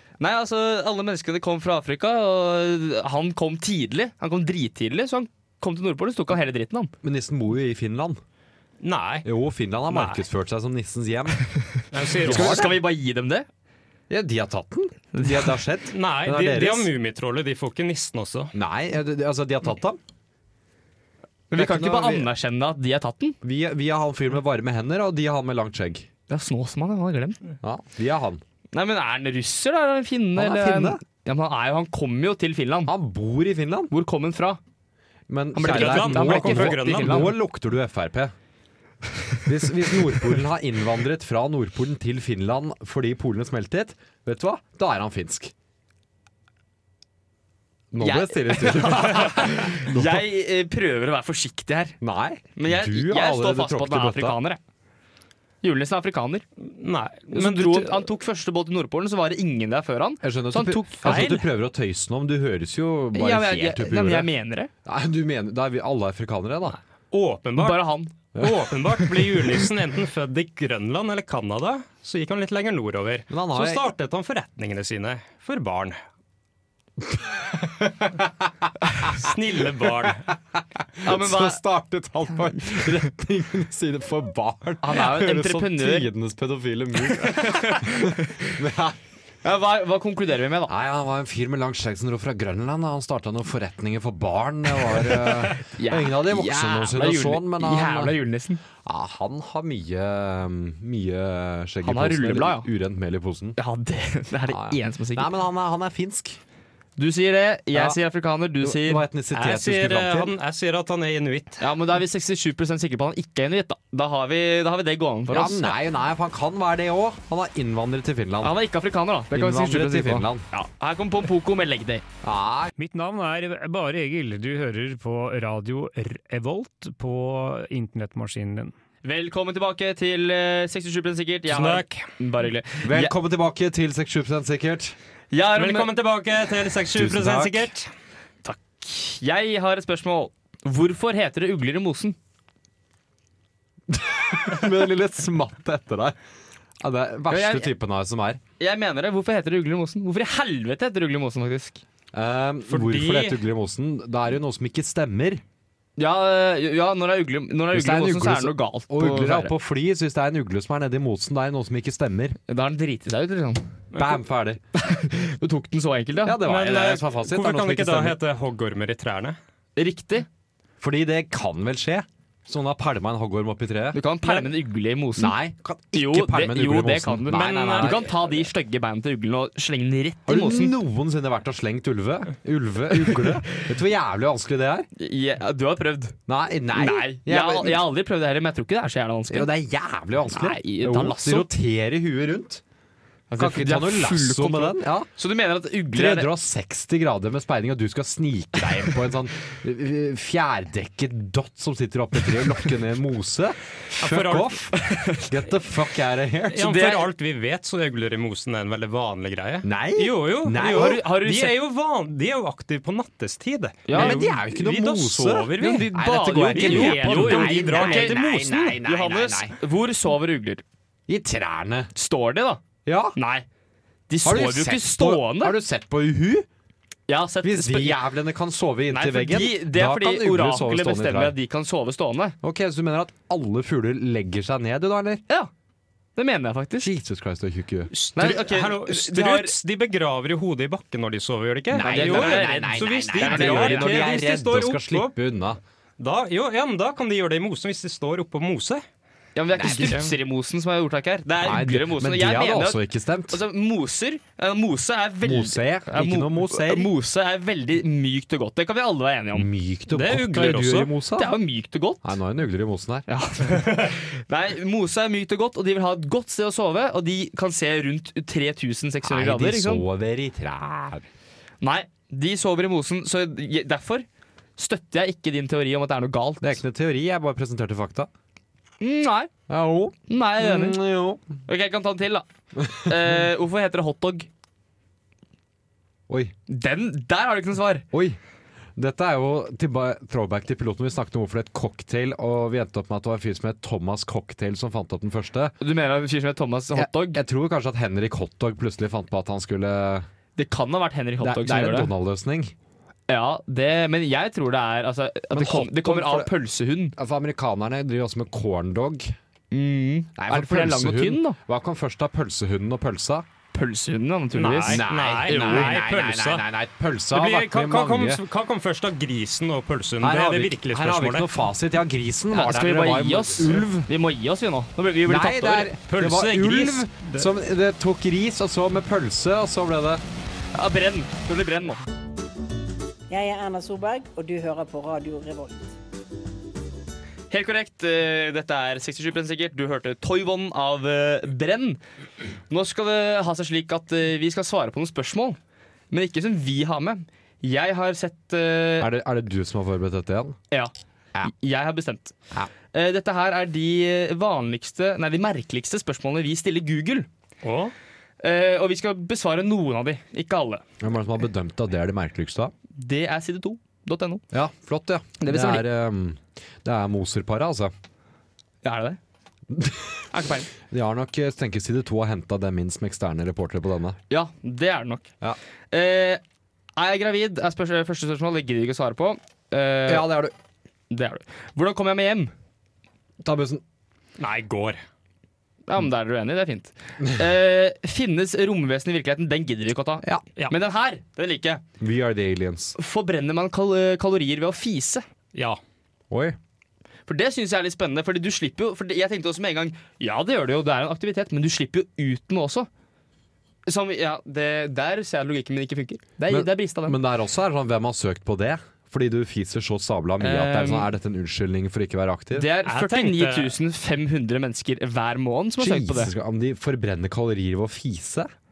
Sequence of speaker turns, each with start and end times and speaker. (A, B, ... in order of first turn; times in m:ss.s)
0:00.2-0:06.9 A
0:07.0-0:08.2 B
0:08.8-0:09.2 C
0:09.2-0:11.4 B
0:09.9-0:10.2 C
0:11.9-0:12.7 C
0:12.2-0:12.8 B
0:12.2-0:13.5 A
0:14.1-0:16.9 B
0:15.1-0:15.5 A
0:15.9-0:18.5 C
0:18.5-0:20.0 B
0:21.5-0:23.4 A
0:21.5-0:22.3 B
0:23.4-0:26.1 B
0:26.3-0:27.4 A
0:27.6-0:28.4 B
0:28.7-0:32.9 A
0:30.4-0:31.0 B
0:32.8-0:33.9 B
0:33.9-0:34.6 A
0:35.3-0:38.3 B
0:35.5-0:37.3 A
0:35.6-0:37.4 C
0:39.4-0:45.5 B
0:47.9-0:50.2 B
0:48.0-0:52.0 A
0:52.0-0:54.4 B
0:52.5-0:54.6 A
0:55.6-0:56.4 A
0:56.7-0:58.0 C
0:57.3-1:01.4 A
1:00.2-1:04.3 B
1:01.0-1:01.4 C
1:03.1-1:04.7 A
1:04.8-1:06.8 B
1:07.1-1:16.0 C
1:07.6-1:08.1 A
1:08.3-1:09.7 B
1:13.3-1:13.9 B
1:17.1-1:18.4 B
1:19.0-1:20.1 B
1:19.0-1:20.3 C
1:21.0-1:29.0 B
1:21.0-1:21.6 A
1:24.8-1:26.1 A
1:27.0-1:28.4 A
1:29.4-1:30.7 A
1:30.7-1:38.2 B
1:35.6-1:38.6 A
1:38.8-1:43.6 B
1:41.8-1:42.7 A
1:43.6-1:45.3 A
1:44.5-1:46.4 B
1:47.0-1:49.0 A
1:47.7-1:48.0 B
1:48.6-1:50.3 B
1:49.3-1:51.6 C
1:51.6-1:55.7 A
1:55.3-1:58.6 B
1:58.4-2:02.0 A
1:59.3-2:00.4 B
2:02.2-2:02.7 B
2:02.8-2:08.7 D
2:09.0-2:13.1 A
2:11.5-2:12.0 C
2:12.8-2:15.0 B
2:15.3-2:15.9 A
2:15.5-2:17.9 C
2:16.9-2:17.7 B
2:18.4-2:22.2 A
2:23.9-2:26.2 B
2:26.8-2:28.4 B
2:27.3-2:27.7 A
2:28.6-2:31.8 A
2:32.1-2:35.4 B
2:32.7-2:33.4 C
2:36.0-2:39.5 A
2:37.7-2:42.4 B
2:42.5-2:43.7 A
2:43.9-2:44.2 C
2:43.9-2:44.6 B
2:44.7-2:46.4 A
2:46.2-2:48.2 B
2:46.4-2:49.4 C
2:49.8-2:50.3 A
2:50.8-2:54.0 B
2:53.9-2:55.4 A
2:55.2-2:58.1 B
2:55.9-3:00.8 A
2:57.3-2:58.0 C
3:00.3-3:04.9 B
3:05.0-3:06.2 A
3:06.3-3:07.8 B
3:06.7-3:09.5 A
3:09.3-3:12.6 B
3:10.3-3:11.5 A
3:13.3-3:16.3 A
3:13.4-3:15.1 B
3:15.9-3:26.8 B
3:24.0-3:24.6 C
3:24.8-3:25.3 A
3:26.5-3:35.9 C
3:26.6-3:27.0 A
3:29.6-3:31.0 B
3:30.6-3:31.6 A
3:33.9-3:34.3 A
3:33.9-3:39.6 B
3:35.6-3:40.6 A
3:36.5-3:38.7 C
3:41.1-3:41.9 B
3:41.9-3:42.6 A
3:42.8-3:43.2 B
3:43.1-3:43.4 A
3:44.1-3:45.6 A
3:44.2-3:46.5 B
3:47.1-3:48.0 A
3:47.4-3:51.4 B
3:48.9-3:52.4 A
3:52.4-3:55.2 B
3:56.2-3:56.9 A
3:56.8-3:57.9 B
3:57.9-4:05.1 C
3:58.1-3:59.5 A
4:01.7-4:05.6 B
4:01.8-4:04.1 A
4:06.0-4:08.8 C
4:09.4-4:19.5 A
4:09.5-4:10.0 B
4:09.8-4:10.1 C
4:11.4-4:13.4 B
4:15.2-4:16.9 B
4:19.3-4:21.3 B
4:19.9-4:20.9 C
4:21.2-4:22.1 A
4:22.0-4:23.1 B
4:23.1-4:29.8 A
4:29.0-4:31.0 B
4:31.6-4:34.0 A
4:34.6-4:36.6 A
4:36.4-4:38.1 B
4:38.8-4:39.3 A
4:39.5-4:41.2 B
4:40.1-4:40.8 A
4:41.5-4:44.3 A
4:42.6-4:43.2 B
4:46.1-4:46.3 B
4:46.5-4:47.8 A
4:47.9-4:48.2 B
4:48.8-4:55.5 B
4:55.6-4:57.2 A
4:56.7-5:00.1 B
5:00.4-5:01.9 A
5:01.2-5:02.5 B
5:03.1-5:06.9 A
5:05.3-5:06.3 B
5:06.9-5:09.1 B
5:09.5-5:11.4 A
5:10.2-5:13.2 B
5:13.5-5:15.8 A
5:14.3-5:16.4 C
5:14.6-5:18.2 B
5:17.1-5:21.3 C
5:20.0-5:23.7 B
5:22.3-5:25.7 A
5:25.0-5:30.0 B
5:25.9-5:27.3 C
5:30.5-5:31.8 A
5:33.1-5:35.7 E
5:37.3-5:41.8 A
5:42.5-5:45.4 A
5:45.9-5:48.9 A
5:48.8-5:50.4 B
5:51.2-5:52.1 A
5:52.7-5:57.1 A
5:57.4-5:57.7 C
5:58.2-6:00.6 A
6:00.8-6:02.5 B
6:02.7-6:04.2 A
6:04.3-6:07.7 B
6:05.2-6:05.6 A
6:08.6-6:09.0 A
6:09.5-6:10.1 B
6:10.1-6:10.5 A
6:10.6-6:14.0 B
6:14.1-6:15.1 A
6:15.7-6:16.2 A
6:16.8-6:20.1 A
6:19.8-6:20.3 B
6:20.9-6:22.3 A
6:23.2-6:23.6 B
6:24.2-6:24.8 C
6:25.7-6:31.6 A
6:31.8-6:32.8 B
6:32.8-6:35.0 A
6:35.3-6:35.6 C
6:36.1-6:36.4 B
6:37.1-6:42.7 A
6:43.6-6:47.0 A
6:46.3-6:52.5 B
6:50.2-6:50.9 A
6:52.3-6:56.1 A
6:52.6-6:53.6 C
6:55.6-6:58.3 B